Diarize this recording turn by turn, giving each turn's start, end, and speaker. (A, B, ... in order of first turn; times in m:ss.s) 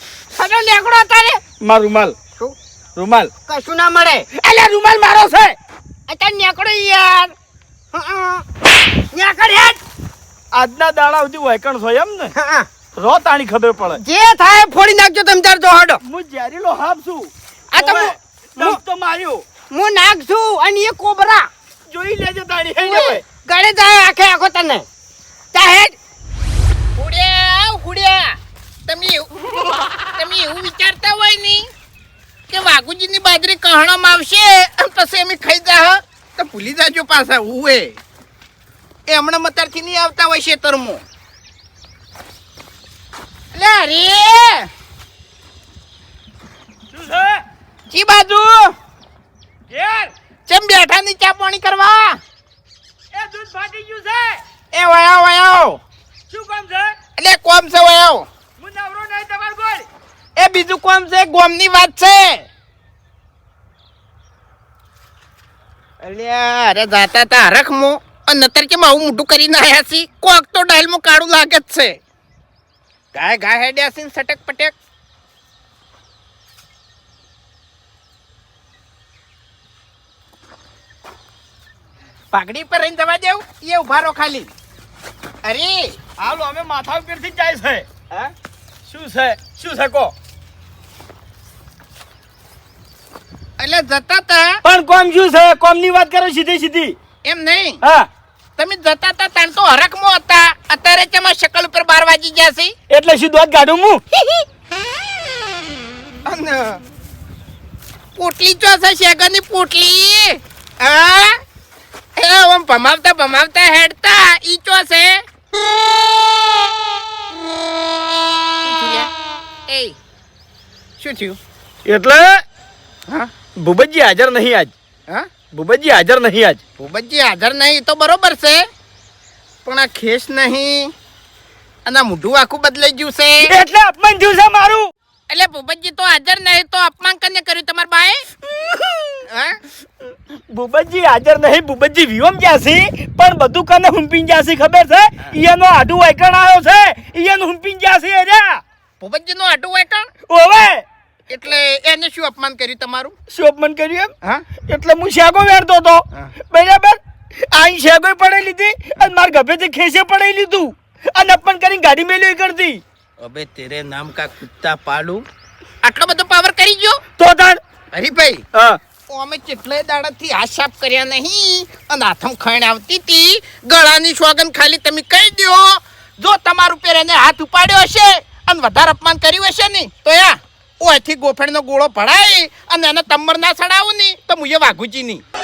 0:00.4-0:01.4 A
0:01.6-0:02.2 B
0:03.0-0:03.3 B
0:03.5-0:04.3 A
0:04.4-0:05.6 B
0:06.1-0:07.3 A
0:07.9-0:08.5 A
0:09.1-0:09.8 A
0:10.5-0:12.3 B
0:12.4-0:12.7 A
0:13.0-0:14.0 B
0:14.0-0:16.0 A
0:16.0-0:19.4 B
0:17.7-0:18.8 A
0:19.7-0:21.5 A
0:21.9-0:23.2 B
0:22.8-0:24.8 A
0:25.5-0:26.0 A
0:27.0-0:29.3 C
0:30.2-0:31.7 C
0:32.5-0:38.0 C
0:39.1-0:41.0 C
0:43.5-0:44.7 C
0:46.9-0:47.4 B
0:47.9-0:48.8 C
0:49.7-0:50.1 B
0:50.5-0:52.2 C
0:53.1-0:54.4 B
0:54.7-0:55.8 C
0:56.3-0:57.0 B
0:57.2-0:58.3 C
0:58.6-0:59.9 B
1:00.4-1:02.4 C
1:06.0-1:12.0 C
1:13.1-1:14.7 C
1:22.3-1:24.5 C
1:25.4-1:26.0 C
1:26.2-1:28.3 B
1:28.9-1:30.1 B
1:33.6-1:34.6 C
1:34.6-1:37.0 B
1:37.2-1:37.8 C
1:37.8-1:38.1 B
1:38.6-1:42.8 C
1:42.9-1:44.0 B
1:46.2-1:46.8 C
1:48.2-1:51.4 C
1:52.2-1:55.2 C
1:58.6-1:59.1 C
1:59.7-2:00.0 C
2:01.0-2:01.4 C
2:01.8-2:02.4 B
2:03.6-2:04.7 B
2:05.5-2:06.6 B
2:06.8-2:08.7 C
2:09.6-2:10.9 C
2:11.9-2:13.5 C
2:13.4-2:14.9 B
2:15.3-2:18.3 C
2:18.4-2:19.3 B
2:19.3-2:19.6 C
2:20.0-2:28.6 B
2:29.0-2:30.1 C
2:30.3-2:30.8 B
2:31.3-2:33.2 C
2:33.3-2:37.0 B
2:37.5-2:42.8 B
2:43.2-2:45.2 C
2:45.8-2:47.0 C
2:47.2-2:47.6 B
2:47.9-2:48.4 C
2:48.5-2:48.8 B
2:49.1-3:05.2 C